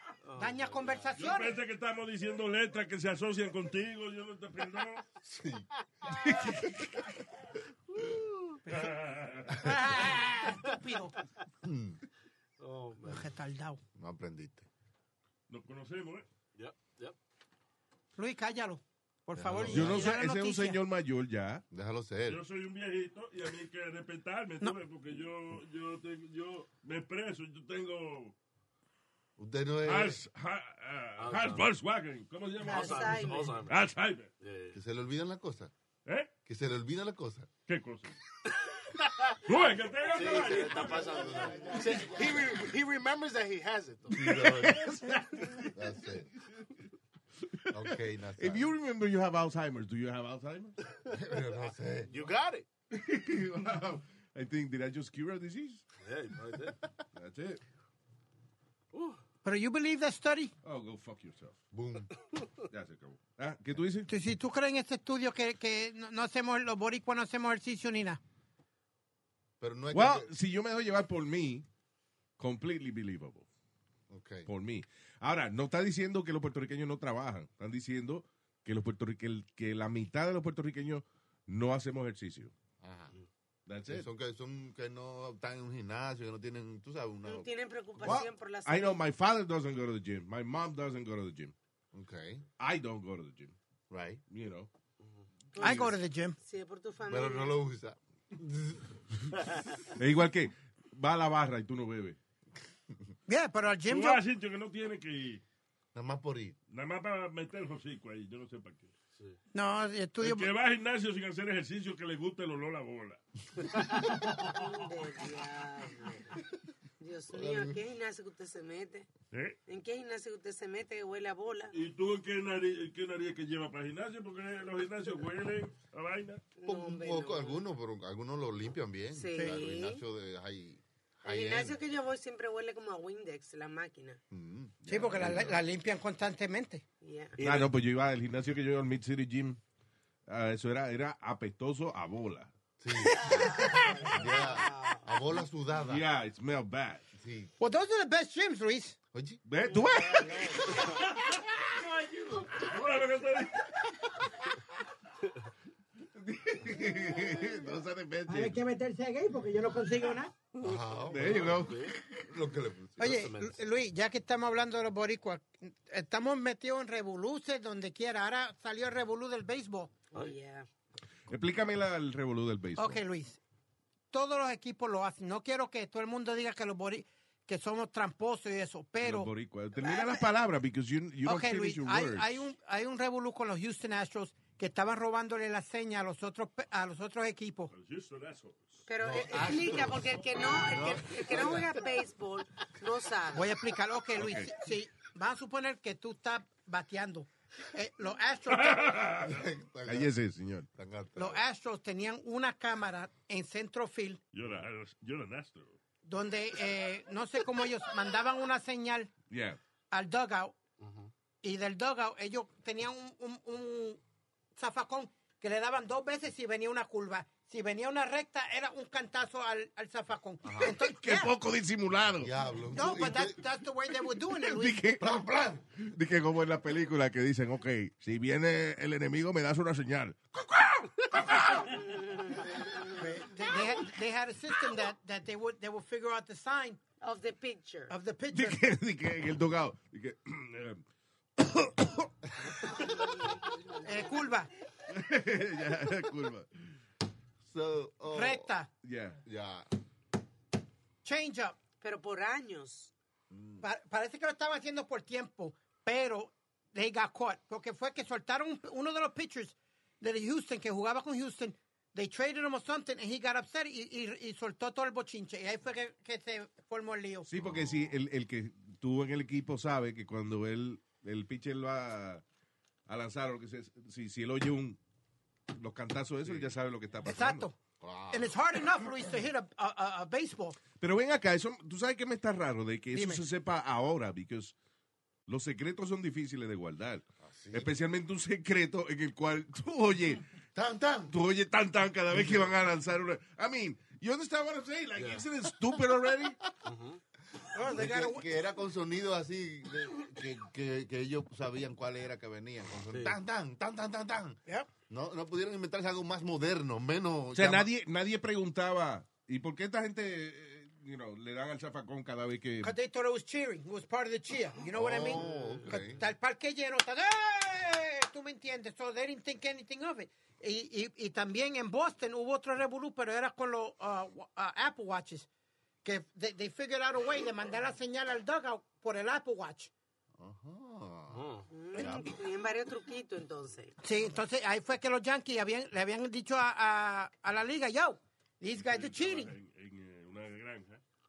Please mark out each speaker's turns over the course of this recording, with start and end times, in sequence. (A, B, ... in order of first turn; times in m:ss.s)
0:00.2-0:01.1 A
0:00.3-0:01.6 B
0:01.2-0:05.0 C
0:05.2-0:05.6 D
0:08.7-0:08.9 B
0:08.7-0:09.7 C
0:09.5-0:11.2 B
0:11.6-0:12.0 D
0:12.6-0:13.3 A
0:13.0-0:13.8 B
0:14.0-0:14.6 D
0:15.5-0:16.2 C
0:16.6-0:17.2 A
0:18.2-0:20.8 B
0:19.3-0:20.1 D
0:19.7-0:21.6 E
0:21.7-0:22.4 D
0:22.3-0:28.3 C
0:29.4-0:30.2 D
0:29.8-0:34.3 C
0:31.2-0:31.7 A
0:32.6-0:33.8 A
0:32.6-0:33.6 F
0:34.4-0:34.8 A
0:34.7-0:35.7 D
0:36.4-0:37.5 D
0:37.6-0:38.2 C
0:39.0-0:39.3 A
0:39.5-0:41.2 C
0:40.1-0:44.7 A
0:44.1-0:44.8 D
0:44.4-0:45.7 E
0:45.6-0:46.3 D
0:47.7-0:48.7 D
0:48.4-0:50.8 E
0:51.1-0:52.3 D
0:52.1-0:52.6 A
0:52.9-0:55.8 E
0:56.0-0:56.8 A
0:57.1-0:57.6 E
0:58.9-0:59.2 A
0:59.4-1:00.5 B
1:00.6-1:01.6 E
1:01.7-1:02.1 D
1:02.7-1:04.1 E
1:04.1-1:08.2 B
1:09.6-1:10.3 D
1:09.9-1:11.6 E
1:12.4-1:13.4 E
1:14.1-1:14.5 D
1:14.4-1:22.5 E
1:22.8-1:23.1 D
1:23.7-1:24.0 E
1:23.9-1:28.2 D
1:27.2-1:29.0 F
1:28.0-1:31.5 E
1:31.9-1:32.4 D
1:32.6-1:33.5 E
1:33.9-1:34.2 D
1:34.3-1:34.7 E
1:35.0-1:35.2 A
1:35.5-1:37.6 F
1:35.6-1:36.4 B
1:37.1-1:38.8 D
1:40.0-1:42.2 E
1:43.3-1:44.2 B
1:43.8-1:45.4 C
1:45.9-1:46.6 D
1:46.7-1:48.9 C
1:49.5-1:50.5 B
1:50.2-1:53.2 C
1:54.4-1:56.4 F
1:57.0-1:59.1 F
1:57.3-1:57.8 D
1:59.3-1:59.6 C
1:59.7-2:01.7 F
2:01.7-2:06.4 C
2:06.6-2:07.6 F
2:06.6-2:11.8 D
2:09.1-2:10.0 F
2:11.2-2:14.2 F
2:14.3-2:15.5 D
2:14.8-2:15.5 E
2:14.9-2:16.8 B
2:17.0-2:17.4 F
2:17.4-2:17.7 A
2:17.4-2:19.6 E
2:20.3-2:22.5 E
2:22.8-2:26.0 D
2:23.3-2:25.0 F
2:25.8-2:27.0 E
2:27.2-2:27.5 D
2:27.6-2:29.0 B
2:29.1-2:29.4 D
2:29.4-2:30.8 E
2:31.2-2:31.5 C
2:32.5-2:33.7 C
2:36.1-2:38.6 E
2:38.3-2:40.3 B
2:40.6-2:43.3 D
2:40.7-2:42.0 A
2:41.1-2:41.8 E
2:43.0-2:49.9 B
2:43.2-2:43.4 A
2:50.1-2:50.7 F
2:51.3-2:53.0 E
2:52.8-2:53.4 B
2:54.1-2:59.3 B
2:59.0-3:02.4 E
2:59.8-3:00.2 B
3:01.2-3:07.7 B
3:07.7-3:08.8 C
3:08.9-3:13.6 F
3:09.0-3:11.7 D
3:13.3-3:19.0 B
3:14.2-3:14.5 E
3:18.5-3:19.3 C
3:19.2-3:20.1 D
3:19.8-3:20.7 E
3:20.7-3:21.4 D
3:21.2-3:24.2 B
3:24.3-3:25.8 C
3:26.0-3:29.1 B
3:29.3-3:29.6 E
3:29.9-3:30.5 B
3:30.8-3:31.1 A
3:31.4-3:34.0 B
3:34.6-3:41.3 B
3:40.4-3:40.7 D
3:40.6-3:42.3 E
3:42.2-3:43.5 D
3:42.7-3:44.8 B
3:44.4-3:45.1 E
3:45.0-3:45.6 D
3:45.8-3:51.7 E
3:51.7-3:52.4 F
3:53.0-3:56.8 B
3:57.0-3:57.9 F
3:57.9-3:58.6 B
3:58.3-4:00.8 E
4:01.4-4:02.1 E
4:03.8-4:04.5 B
4:04.9-4:06.5 E
4:07.4-4:08.5 D
4:08.1-4:08.7 B
4:08.8-4:09.2 E
4:09.2-4:09.7 D
4:11.0-4:11.6 B
4:11.8-4:12.9 F
4:13.3-4:13.6 D
4:13.6-4:27.3 B
4:27.3-4:32.2 E
4:27.4-4:28.0 D
4:32.9-4:34.8 E
4:35.5-4:37.4 E
4:36.2-4:36.6 D
4:37.0-4:37.6 B
4:37.8-4:38.4 D
4:38.1-4:40.6 B
4:40.8-4:44.5 E
4:42.9-4:43.2 B
4:45.3-4:50.2 E
4:47.2-4:47.7 D
4:50.5-4:51.1 D
4:51.1-4:56.4 E
4:52.1-4:52.5 D
4:55.0-4:55.2 A
4:56.6-4:57.0 A
4:57.5-4:58.3 B
4:57.6-5:04.4 D
5:02.9-5:03.2 A
5:04.9-5:07.7 D
5:07.3-5:12.7 E
5:12.6-5:25.3 B
5:14.7-5:16.0 D
5:25.8-5:29.7 B
5:30.2-5:32.2 D
5:31.1-5:31.5 A
5:31.5-5:33.8 F
5:33.8-5:39.3 B
5:38.6-5:40.8 C